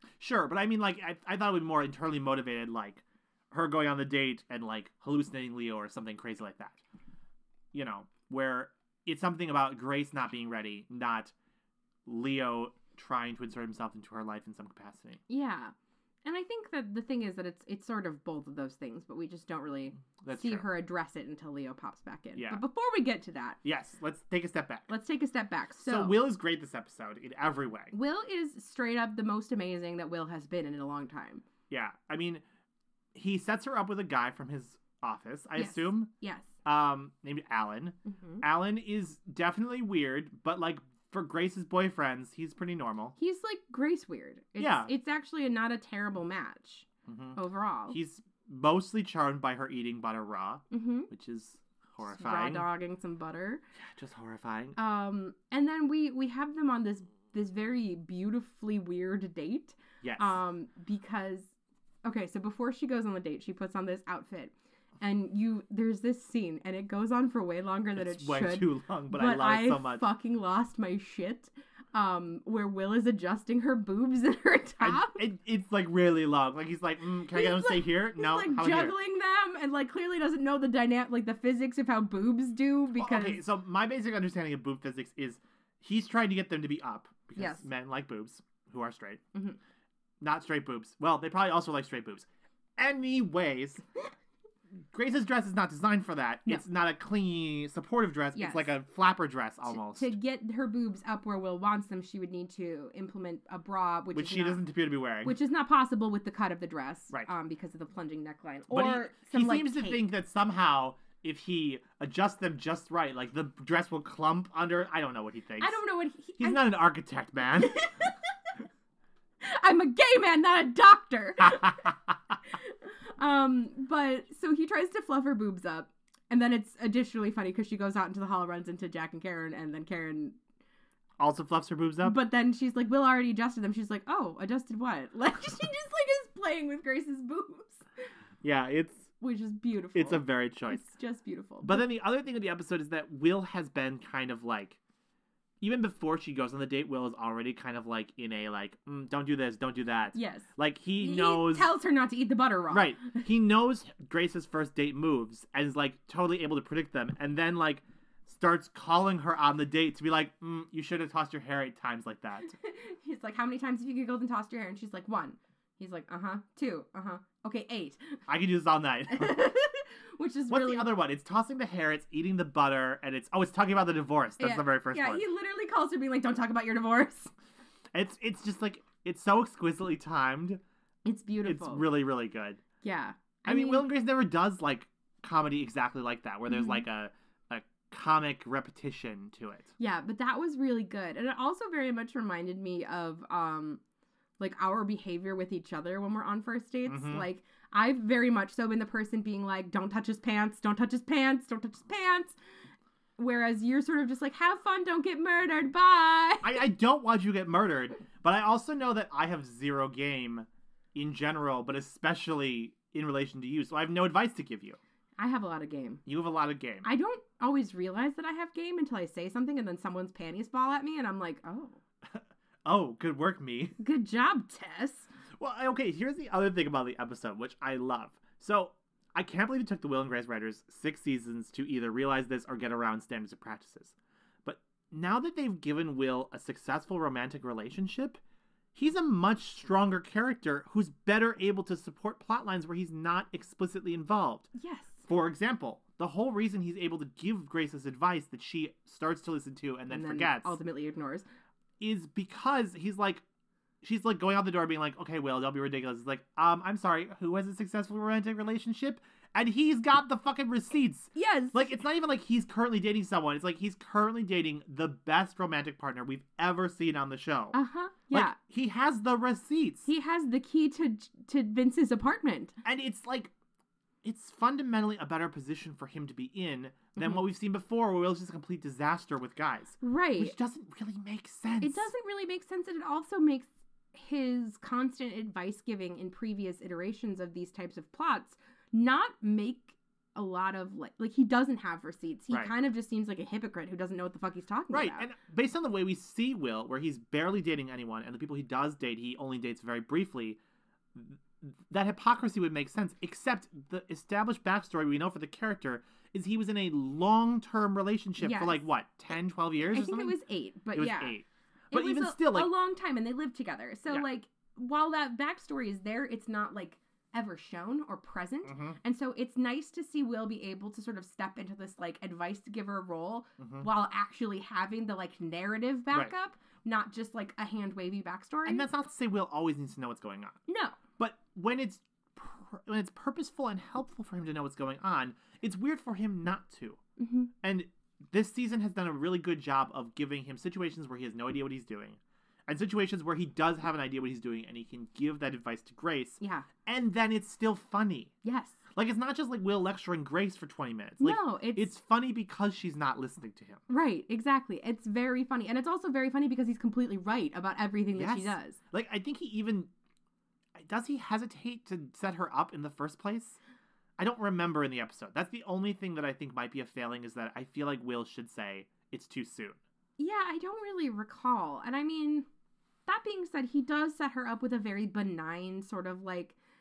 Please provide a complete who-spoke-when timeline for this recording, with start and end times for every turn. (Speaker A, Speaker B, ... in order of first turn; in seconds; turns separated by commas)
Speaker A: 0.2-6.8, Speaker A: 7.7-11.3, Speaker A: 12.1-15.2, Speaker B: 15.3-15.7, Speaker B: 16.2-23.6, Speaker A: 20.2-20.6, Speaker A: 22.4-22.6, Speaker A: 23.6-24.9, Speaker B: 24.9-26.2, Speaker A: 25.8-27.9, Speaker B: 27.9-31.4, Speaker A: 31.7-32.4, Speaker A: 33.1-36.1, Speaker B: 35.6-36.5, Speaker A: 36.6-43.1, Speaker B: 38.1-38.4, Speaker B: 43.2-48.0, Speaker A: 44.6-44.9, Speaker A: 47.1-47.4, Speaker A: 47.9-52.6, Speaker B: 50.7-51.1, Speaker B: 52.0-53.6, Speaker A: 53.8-54.8, Speaker B: 54.8-61.5, Speaker A: 60.0-60.4, Speaker B: 62.0-75.2, Speaker A: 68.0-70.0, Speaker A: 74.8-79.0, Speaker B: 77.3-83.4, Speaker A: 83.0-89.2, Speaker B: 87.4-87.6, Speaker A: 90.2-93.8, Speaker A: 94.9-100.1, Speaker B: 98.3-98.7, Speaker B: 99.7-104.6, Speaker A: 104.1-105.3, Speaker B: 105.2-110.0, Speaker A: 108.7-115.8, Speaker B: 115.6-116.7, Speaker A: 116.4-117.8, Speaker B: 117.6-118.1, Speaker B: 119.4-121.9, Speaker A: 121.4-121.9, Speaker B: 122.5-130.4, Speaker A: 131.2-132.2, Speaker B: 132.0-137.8, Speaker A: 138.4-139.1, Speaker B: 139.2-141.9, Speaker A: 139.9-140.9, Speaker A: 141.6-144.8, Speaker A: 145.6-151.7, Speaker B: 150.1-153.3, Speaker A: 152.7-162.5, Speaker B: 162.4-168.2, Speaker A: 168.3-169.4, Speaker B: 169.1-170.9, Speaker A: 170.5-175.2, Speaker B: 174.4-177.3, Speaker A: 177.9-180.6, Speaker B: 181.0-181.8, Speaker A: 181.4-182.6, Speaker B: 182.8-183.8, Speaker A: 183.4-189.7, Speaker B: 186.5-186.8, Speaker B: 189.8-193.8, Speaker B: 194.4-202.4, Speaker A: 196.8-197.2, Speaker B: 203.2-206.6, Speaker A: 206.4-214.8, Speaker B: 215.2-216.0, Speaker A: 216.1-216.8, Speaker B: 216.8-221.8, Speaker A: 222.1-223.8, Speaker B: 223.8-225.1, Speaker A: 225.4-233.9, Speaker A: 234.4-238.2, Speaker A: 238.7-244.5, Speaker B: 244.6-245.1, Speaker A: 245.1-250.6, Speaker B: 249.9-251.2, Speaker A: 251.8-253.2, Speaker A: 253.8-267.6, Speaker B: 261.1-261.7, Speaker B: 267.5-268.4, Speaker A: 268.1-269.9, Speaker B: 269.8-272.6, Speaker A: 272.6-273.3, Speaker A: 274.0-281.9, Speaker B: 279.8-280.3, Speaker B: 281.6-295.1, Speaker A: 294.7-300.4, Speaker A: 300.9-310.2, Speaker B: 308.2-308.6, Speaker B: 309.7-311.2, Speaker A: 310.7-312.5, Speaker B: 311.7-328.7, Speaker A: 318.4-318.8, Speaker A: 323.4-323.7, Speaker A: 328.4-330.4, Speaker B: 330.5-330.8, Speaker A: 331.0-336.8, Speaker B: 337.0-337.3, Speaker A: 337.4-348.1, Speaker B: 346.2-346.5, Speaker B: 348.2-348.6, Speaker A: 348.7-353.6, Speaker B: 351.0-351.7, Speaker B: 353.7-358.6, Speaker A: 357.9-359.7, Speaker A: 360.5-363.4, Speaker A: 364.0-369.6, Speaker B: 370.0-372.2, Speaker B: 372.9-376.4